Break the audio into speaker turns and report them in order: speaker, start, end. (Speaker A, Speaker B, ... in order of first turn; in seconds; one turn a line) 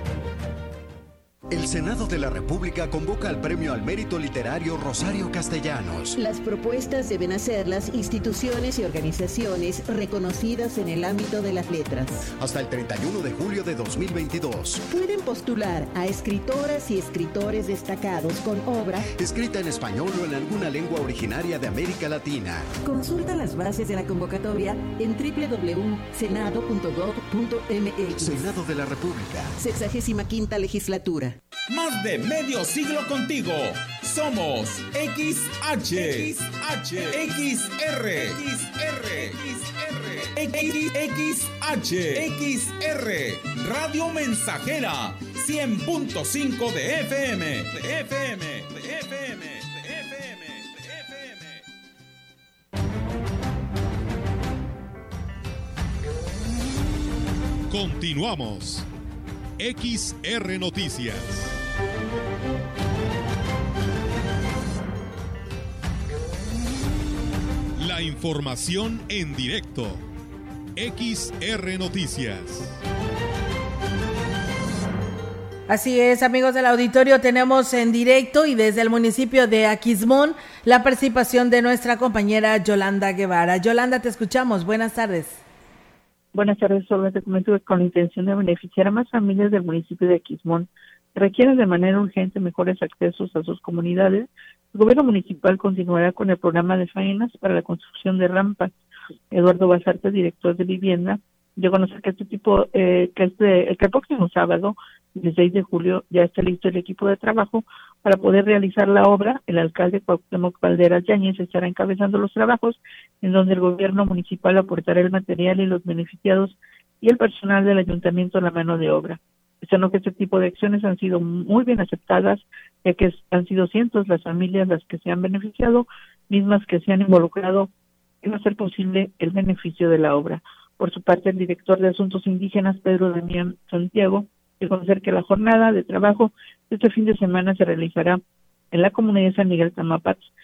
Speaker A: 1.5-6.2
Speaker B: 6.2-12.3
Speaker A: 12.4-14.8
Speaker B: 14.9-19.1
Speaker A: 19.2-22.7
Speaker B: 22.8-28.4
Speaker A: 28.1-29.6
Speaker B: 29.6-31.4
Speaker C: 31.7-51.6
Speaker D: 57.7-58.9
Speaker D: 59.6-61.6
Speaker D: 67.8-70.0
Speaker D: 70.8-72.8
Speaker E: 75.7-85.4
Speaker F: 86.3-98.7
Speaker F: 99.3-127.7
Speaker F: 128.2-138.2
Speaker F: 138.7-140.3